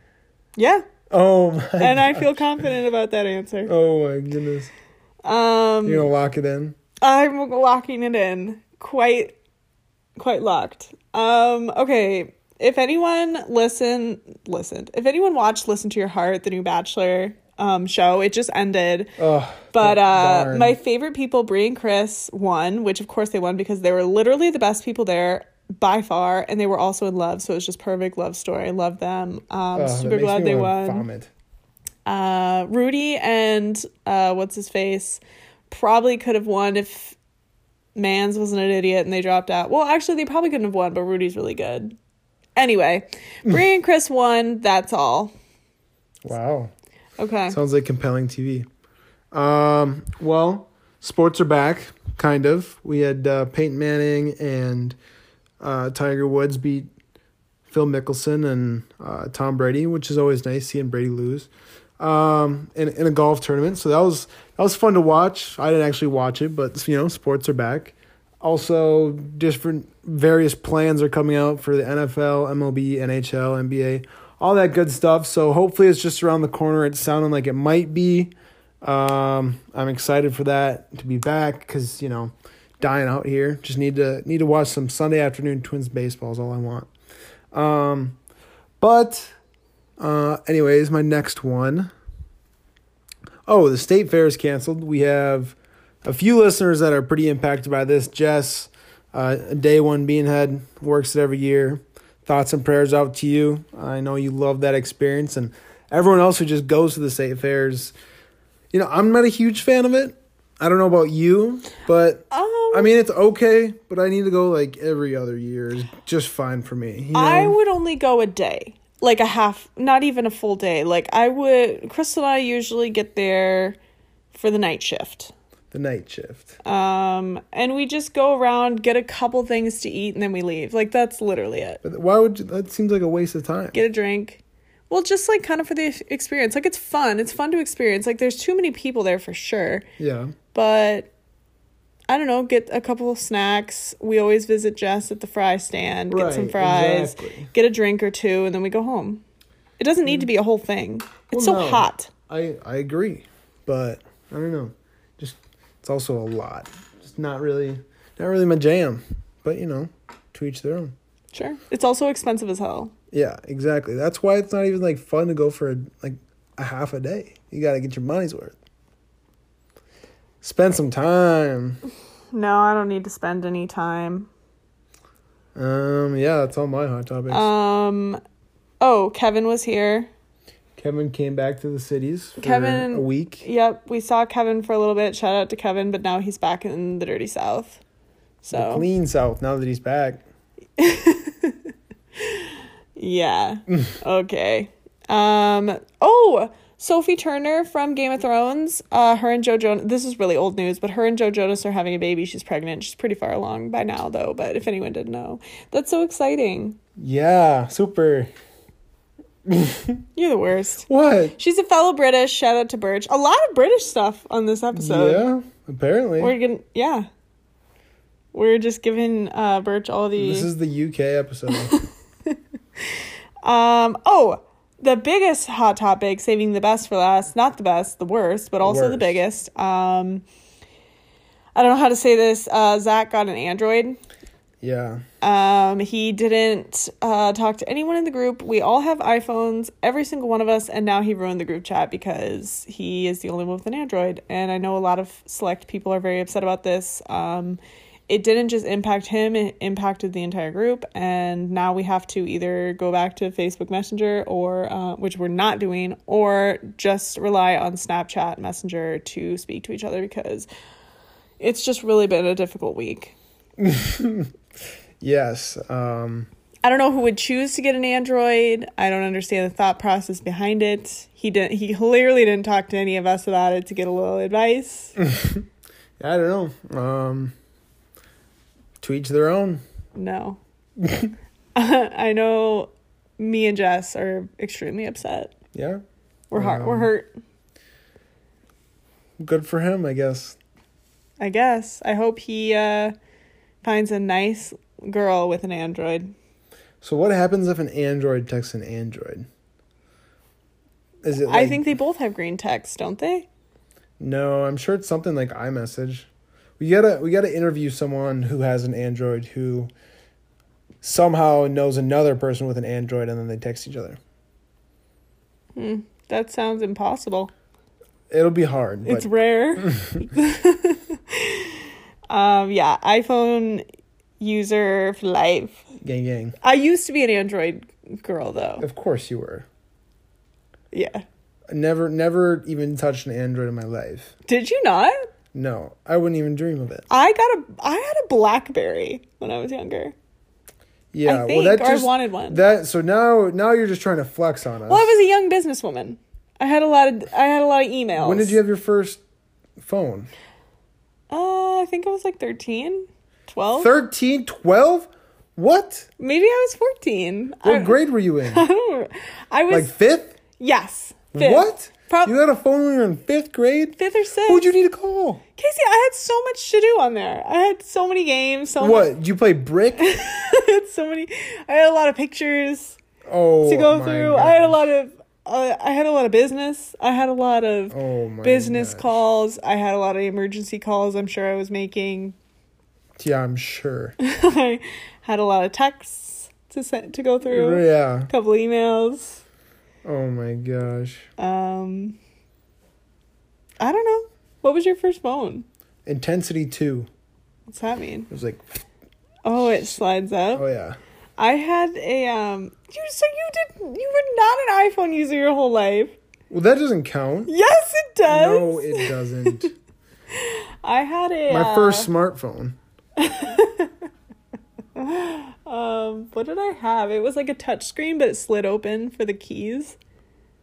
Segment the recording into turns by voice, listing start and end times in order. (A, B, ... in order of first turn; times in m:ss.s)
0:00.6-0:00.8 A
0:01.1-0:02.5 B
0:01.8-0:03.7 A
0:03.7-0:04.7 B
0:05.2-0:06.1 A
0:05.8-0:06.8 B
0:07.0-0:09.4 A
0:10.2-0:19.2 A
0:19.2-0:20.8 B
0:19.7-0:31.0 A
0:29.7-0:31.3 B
0:32.0-0:37.2 A
0:38.0-0:41.9 A
0:42.6-0:45.3 A
0:46.2-0:46.7 B
0:47.2-0:47.6 A
0:47.5-0:48.7 B
0:49.3-0:55.0 B
0:55.6-0:56.9 B
0:57.7-1:26.9 B
1:27.5-1:28.2 B
1:28.8-1:29.3 B
1:30.0-1:31.9 B
1:33.4-1:47.9 B
1:48.7-1:57.6 B
1:52.3-1:52.9 A
1:57.1-2:03.8 A
2:04.3-2:05.3 A
2:05.7-2:06.6 B
2:06.6-2:11.8 A
2:11.8-2:13.8 B
2:13.7-2:19.8 A
2:20.0-2:20.3 B
2:20.5-2:21.1 A
2:22.1-2:29.2 A
2:26.1-2:27.5 B
2:29.8-2:32.1 A
2:31.3-2:40.9 B
2:41.3-2:42.9 A
2:43.1-2:48.6 B
2:50.4-2:51.8 B
2:52.3-2:54.3 A
2:55.5-2:57.5 B
2:57.3-2:58.2 A
2:58.8-3:00.1 A
3:00.8-3:03.4 B
3:02.4-3:07.8 A
3:08.4-3:08.8 A
3:08.5-3:10.2 B
3:10.8-3:11.6 A
3:12.2-3:26.8 A
3:27.0-3:28.3 B
3:29.4-3:30.0 B
3:30.2-3:35.2 A
3:30.9-3:31.4 B
3:34.7-3:36.3 B
3:36.2-3:37.1 A
3:38.3-3:40.5 A
3:40.2-3:41.7 B
3:41.5-3:42.4 A
3:43.0-3:50.2 A
3:48.6-3:49.2 B
3:51.5-3:54.0 A
3:54.6-3:55.0 B
3:55.2-4:20.5 A
4:21.4-4:23.1 A
4:23.6-4:24.3 B
4:25.0-4:26.3 B
4:26.6-4:35.0 A
4:35.0-4:35.4 B
4:36.0-4:37.3 B
4:38.8-4:39.6 B
4:39.9-4:40.4 A
4:40.8-4:41.1 B
4:41.5-4:45.3 A
4:45.5-4:45.8 B
4:46.3-4:47.1 A
4:46.3-4:46.9 B
4:49.2-4:50.4 B
4:51.2-4:52.9 A
4:53.6-4:56.1 A
4:56.8-4:59.3 B
5:01.0-5:01.7 B
5:01.2-5:03.3 A
5:04.0-5:06.1 B
5:06.6-5:09.7 B
5:10.8-5:14.0 B
5:15.6-5:17.3 A
5:18.1-5:19.1 B
5:18.8-5:23.6 A
5:24.2-5:25.6 A
5:25.8-5:26.4 B
5:26.4-5:28.6 A
5:28.6-5:29.5 B
5:30.7-5:31.0 A
5:31.5-5:34.1 B
5:34.3-5:35.0 A
5:35.3-5:36.9 B
5:36.9-5:39.9 A
5:40.9-5:44.9 B
5:41.0-5:42.4 A
5:44.7-5:48.4 A
5:48.0-5:49.0 B
5:49.6-5:50.1 B
5:51.1-5:53.7 A
5:53.6-5:55.9 B
5:56.0-5:59.7 A
5:57.4-5:58.4 B
5:59.5-6:00.2 B
6:00.4-6:02.1 A
6:01.1-6:03.8 B
6:03.8-6:04.5 A
6:04.3-6:05.2 B
6:05.4-6:08.9 A
6:08.6-6:09.8 B
6:09.8-6:12.8 A
6:13.0-6:14.6 B
6:13.4-6:22.2 A
6:17.7-6:18.9 B
6:23.0-6:24.0 B
6:24.0-6:29.2 A
6:27.2-6:28.1 B
6:29.8-6:31.1 B
6:31.2-6:32.0 A
6:33.6-6:35.4 A
6:35.8-6:36.9 B
6:37.5-6:38.1 A
6:38.1-6:38.4 B
6:39.2-6:40.4 A
6:40.3-6:40.8 B
6:41.2-6:45.9 A
6:46.3-6:47.3 B
6:47.3-6:49.5 A
6:48.0-6:49.5 B
6:50.1-6:51.9 A
6:51.3-6:52.6 B
6:53.0-6:53.7 A
6:54.8-6:59.8 A